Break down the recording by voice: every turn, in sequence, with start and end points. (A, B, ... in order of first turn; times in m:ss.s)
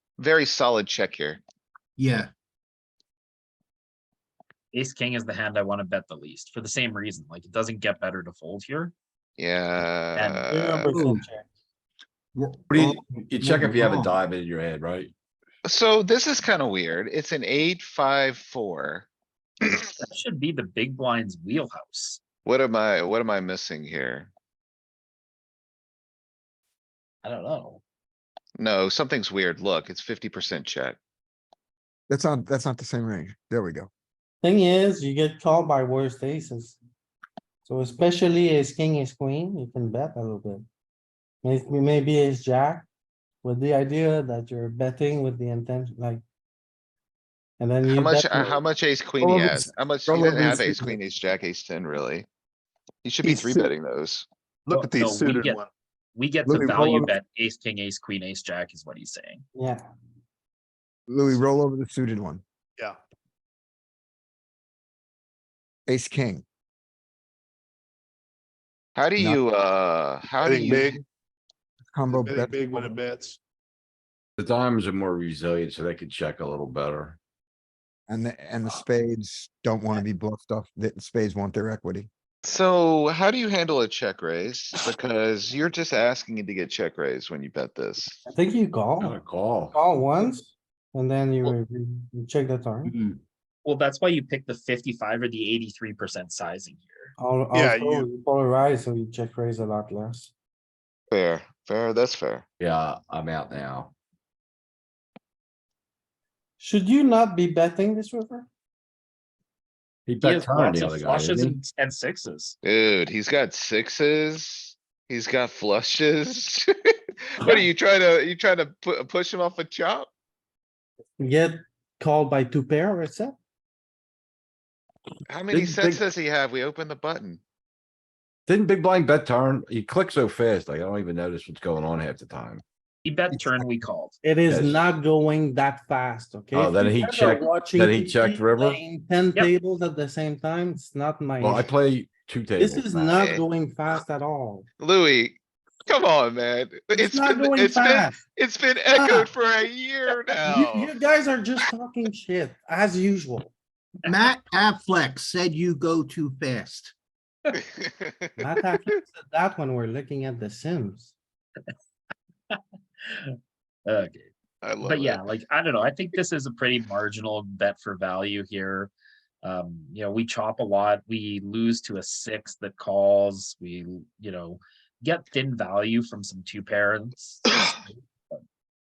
0:00.2-0:01.4 A
0:02.0-0:02.3 B
0:04.7-0:08.9 C
0:09.4-0:11.0 A
0:10.1-0:10.4 C
0:10.5-0:11.5 D
0:10.9-0:11.2 B
0:12.3-0:14.2 B
0:12.7-0:15.1 E
0:15.6-0:19.1 A
0:20.0-0:22.2 C
0:22.4-0:24.3 A
0:27.2-0:27.8 C
0:28.6-0:31.0 A
0:32.1-0:33.9 F
0:34.4-0:36.8 D
0:37.6-0:40.6 D
0:41.4-0:42.9 D
0:43.4-0:46.2 D
0:47.6-0:48.6 D
0:47.9-0:52.3 A
0:49.2-0:51.0 F
0:53.0-0:54.3 A
0:53.2-0:53.7 G
0:54.6-0:55.7 G
0:54.7-0:55.6 C
0:56.1-0:59.4 C
0:56.5-0:57.1 F
0:56.8-0:57.0 G
0:59.5-0:59.9 D
1:01.1-1:02.4 F
1:05.9-1:06.4 F
1:09.0-1:11.0 A
1:10.4-1:11.0 G
1:11.9-1:12.9 F
1:12.1-1:13.4 G
1:14.4-1:17.2 E
1:18.1-1:22.1 F
1:22.4-1:28.2 A
1:28.2-1:29.2 D
1:29.0-1:29.8 E
1:29.7-1:32.9 D
1:33.6-1:37.1 C
1:37.2-1:40.3 D
1:37.5-1:38.1 G
1:41.1-1:42.4 A
1:42.6-1:43.9 E
1:46.6-1:48.5 D
1:50.1-1:51.6 E
1:50.2-1:52.6 C
1:52.6-1:56.7 A
1:57.3-2:00.1 A
2:01.2-2:03.4 D
2:05.3-2:07.4 A
2:05.5-2:06.0 E
2:08.5-2:12.6 E
2:13.0-2:14.2 C
2:14.2-2:21.7 D
2:14.5-2:14.8 E
2:16.5-2:18.8 E
2:21.4-2:23.2 E
2:22.6-2:24.7 D
2:23.2-2:23.4 A
2:24.8-2:31.0 A
2:26.9-2:28.2 D
2:28.9-2:29.3 D
2:30.4-2:33.5 D
2:34.0-2:36.9 B
2:37.7-2:38.4 A
2:38.4-2:41.1 D
2:43.8-2:44.3 C
2:44.6-2:45.2 A
2:44.8-2:48.9 C
2:49.4-2:58.4 C